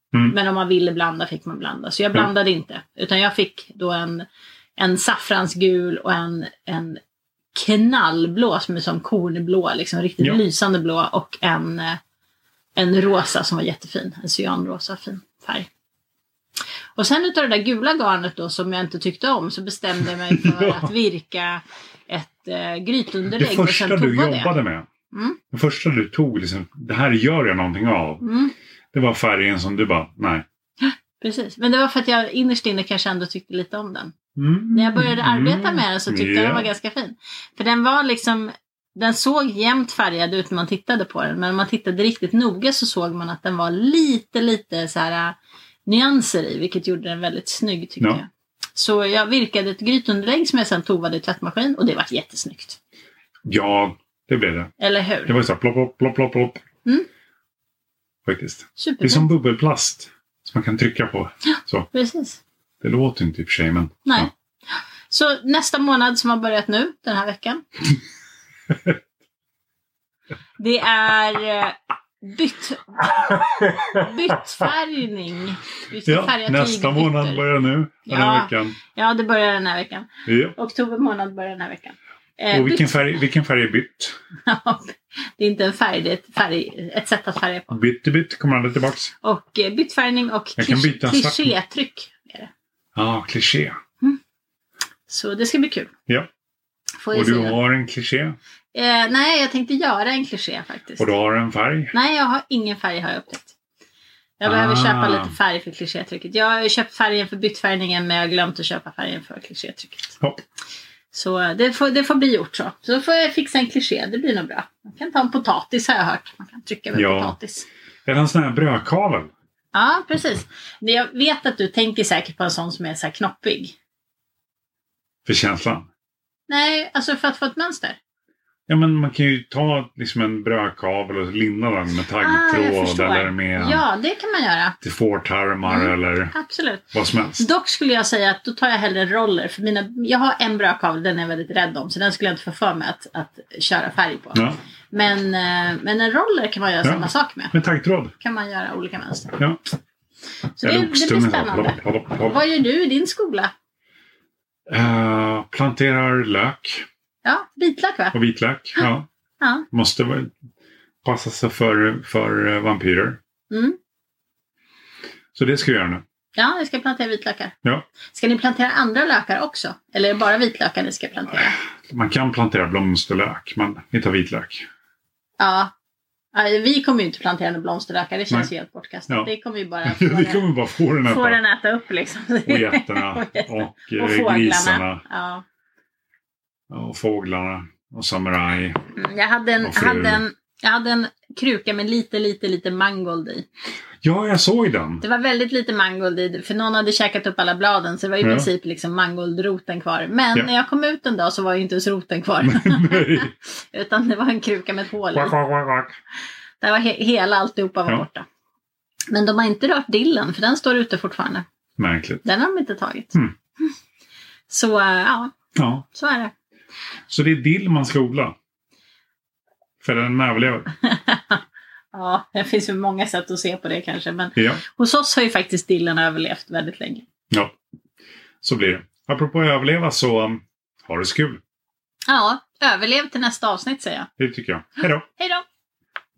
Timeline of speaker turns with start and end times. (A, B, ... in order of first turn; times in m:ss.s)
0:00.3-0:04.2 A
0:04.8-0:07.0 A
0:07.5-0:12.0 A
0:12.8-0:15.7 A
0:17.0-0:24.5 A
0:20.3-0:20.9 B
0:23.4-0:24.9 B
0:25.1-0:25.4 A
0:25.5-0:28.2 B
0:28.2-0:28.5 A
0:28.9-0:30.4 B
0:30.8-0:34.1 A
0:34.4-0:36.7 B
0:34.7-0:52.8 A
0:53.4-0:54.7 B
0:54.8-0:55.3 A
0:55.2-0:56.6 B
0:58.2-1:01.9 B
0:58.8-0:59.3 A
1:01.5-1:02.4 A
1:02.8-1:04.3 B
1:04.0-1:04.3 A
1:05.1-1:07.6 A
1:10.6-1:17.5 A
1:16.0-1:18.8 B
1:18.1-1:23.1 A
1:20.3-1:20.5 B
1:22.5-1:24.1 B
1:24.4-1:27.8 A
1:27.7-1:29.1 B
1:29.2-1:32.5 A
1:30.6-1:31.5 B
1:32.9-1:33.8 B
1:35.1-1:35.9 A
1:37.0-1:37.6 A
1:37.1-1:38.4 B
1:38.7-1:41.1 A
1:41.0-1:41.9 B
1:41.9-1:43.5 A
1:44.4-1:50.2 A
1:44.4-1:45.3 B
1:51.1-1:57.7 A
1:56.9-1:57.3 B
1:58.0-1:59.3 B
1:59.7-2:03.7 A
2:05.2-2:05.9 B
2:06.5-2:08.0 A
2:08.7-2:13.8 B
2:12.2-2:14.8 A
2:14.8-2:16.3 B
2:15.6-2:27.5 A
2:16.9-2:17.4 B
2:26.8-2:28.1 B
2:28.2-2:29.4 A
2:30.6-2:33.5 A
2:30.6-2:32.4 B
2:34.7-2:36.8 B
2:37.2-2:38.2 A
2:38.1-2:39.1 B
2:39.7-2:40.3 B
2:41.0-2:43.2 B
2:43.5-2:43.8 A
2:45.3-2:46.0 B
2:46.3-2:47.5 A
2:48.1-2:51.6 A
2:51.8-2:54.7 B
2:55.4-2:55.7 A
2:56.3-3:00.5 A
2:59.8-3:01.4 B
3:01.0-3:05.4 A
3:02.4-3:05.0 B
3:06.7-3:08.8 B
3:09.0-3:13.4 A
3:09.6-3:10.2 B
3:14.0-3:15.0 B
3:15.0-3:25.3 A
3:18.2-3:18.5 B
3:22.4-3:23.3 B
3:25.1-3:25.9 B
3:26.6-3:28.2 A
3:29.1-3:31.4 A
3:31.8-3:32.2 B
3:32.2-3:33.1 A
3:34.5-3:35.3 A
3:35.6-3:35.8 B
3:35.9-3:36.3 A
3:37.1-3:38.3 B
3:39.8-3:40.7 B
3:40.8-3:41.4 A
3:41.9-3:47.0 A
3:44.4-3:44.6 B
3:48.4-3:51.4 B
3:52.1-3:54.1 A
3:54.2-3:55.1 B
3:55.2-3:55.4 A